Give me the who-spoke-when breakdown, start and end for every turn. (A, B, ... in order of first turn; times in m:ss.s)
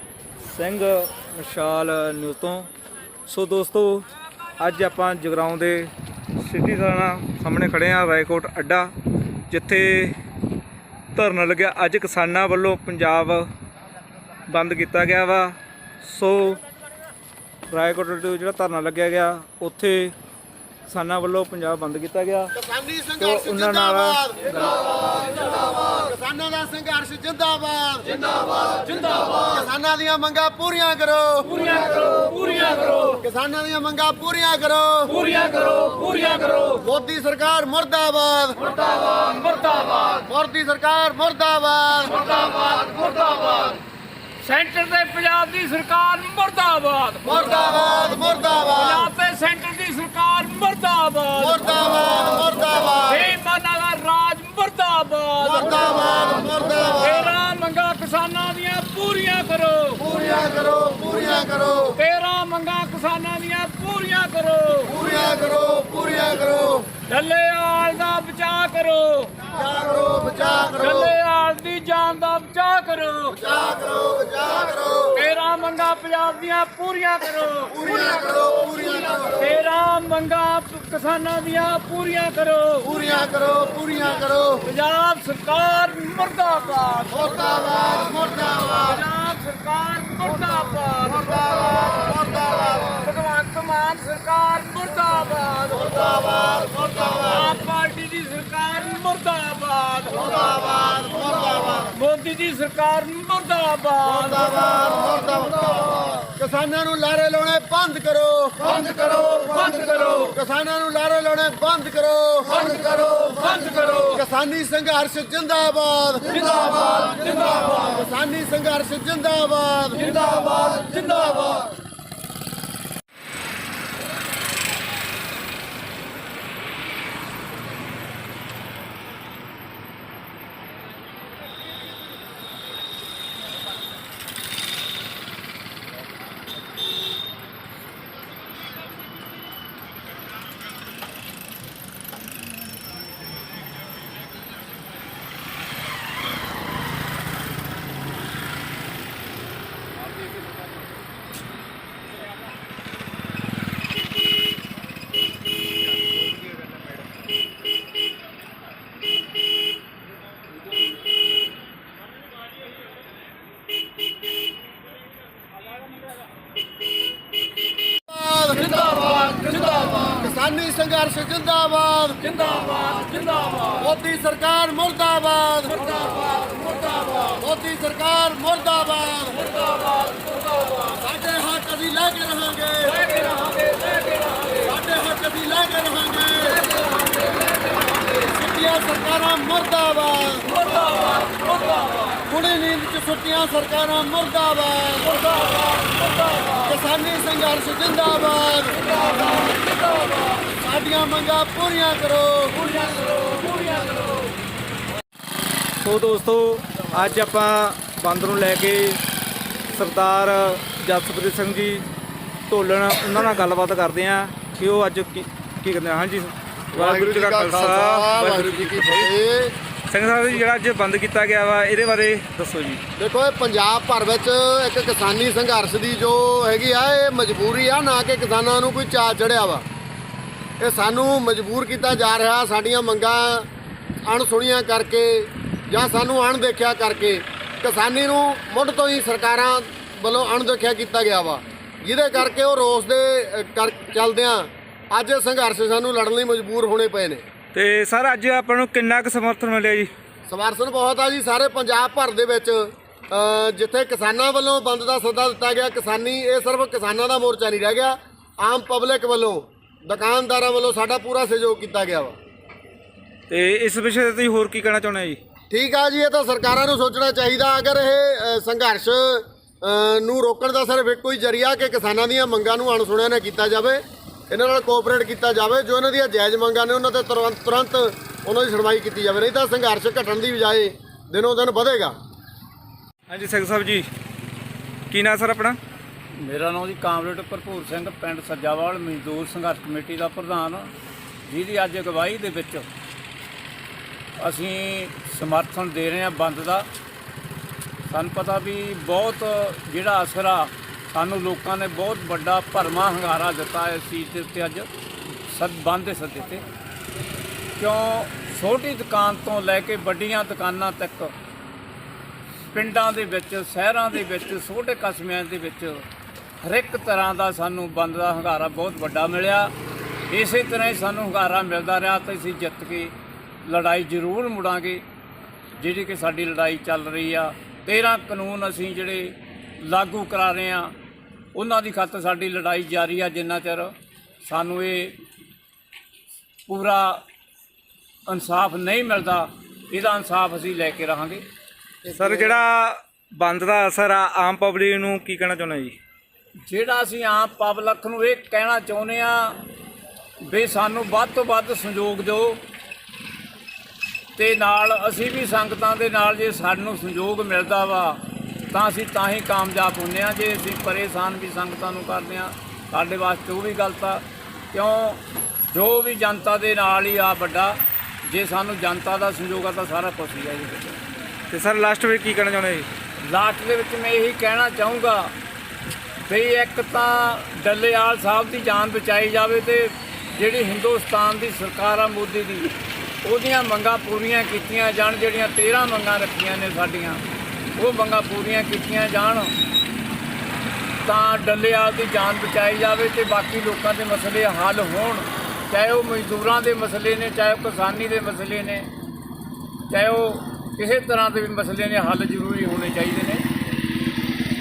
0:00.4-0:02.7 A
0:03.3-0:04.1 A
0:04.6-0:08.9 A
0:09.5-0:10.2 A
0:11.2-0:13.5 A
0:14.5-0:16.6 A
0:17.7-0:20.2 A
0:20.9-0:22.5 A
0:22.5-0:24.4 B
0:23.2-0:24.2 A
0:25.7-0:28.2 B
0:29.2-0:31.5 B
0:31.5-0:33.2 C
0:33.2-0:35.2 B
0:35.1-0:36.8 C
0:36.8-0:38.6 B
0:38.8-0:40.1 C
0:40.2-0:42.3 B
0:42.2-0:43.7 C
0:44.4-0:47.6 C
0:47.2-0:49.1 B
0:48.7-0:51.8 C
0:51.4-0:53.2 B
0:53.0-0:55.9 C
0:55.4-0:57.3 B
0:57.0-1:00.0 C
1:00.0-1:02.0 B
1:02.0-1:04.9 C
1:04.9-1:06.9 B
1:07.0-1:09.4 C
1:09.5-1:11.1 B
1:10.8-1:13.4 C
1:13.3-1:15.2 B
1:15.2-1:17.9 C
1:17.7-1:19.4 B
1:19.3-1:22.9 C
1:22.8-1:24.7 B
1:24.6-1:27.4 C
1:27.1-1:28.9 B
1:28.6-1:36.1 C
1:31.2-1:32.7 B
1:35.9-1:37.3 B
1:37.1-1:40.2 C
1:40.1-1:41.9 B
1:41.9-1:44.6 C
1:44.0-1:48.7 B
1:48.7-1:50.3 C
1:50.3-1:53.1 B
1:53.5-1:54.1 C
1:54.1-2:00.3 B
2:48.0-2:49.3 B
2:50.0-2:52.4 B
2:52.9-2:53.5 C
2:53.7-2:59.5 B
3:00.7-3:03.0 B
3:02.9-3:04.6 C
3:04.6-3:06.7 B
3:08.1-3:10.5 B
3:10.7-3:12.0 C
3:12.2-3:15.2 B
3:16.5-3:18.9 B
3:20.4-3:22.6 B
3:25.8-3:29.0 A
3:29.7-3:31.9 A
3:32.5-3:39.1 A
3:36.7-3:39.6 B
3:39.9-3:42.8 A
3:43.0-3:49.6 B
3:50.6-3:53.5 B
3:54.1-4:07.2 B
4:07.5-4:09.9 A
4:10.3-4:22.1 B
4:23.3-4:25.2 A
4:25.5-4:42.0 B
4:43.1-4:43.9 A
4:44.9-4:45.6 A
4:46.2-4:50.7 C
4:51.2-4:52.7 C
4:54.2-4:56.7 C
4:57.9-5:04.7 C
5:05.2-5:06.4 C
5:07.6-5:11.1 C
5:12.5-5:15.9 C
5:16.4-5:19.5 C
5:20.1-5:24.9 C
5:25.6-5:30.8 C
5:31.3-5:35.0 C
5:36.5-5:37.0 C
5:38.1-5:41.2 C
5:41.9-5:42.4 B
5:41.9-5:45.8 A
5:46.4-5:49.4 C
5:50.2-5:52.4 C
5:54.2-6:10.8 C
6:11.3-6:12.7 A
6:13.0-6:15.1 C
6:16.1-6:27.0 C
6:27.6-6:29.3 C
6:30.8-6:38.7 C
6:39.7-6:43.2 C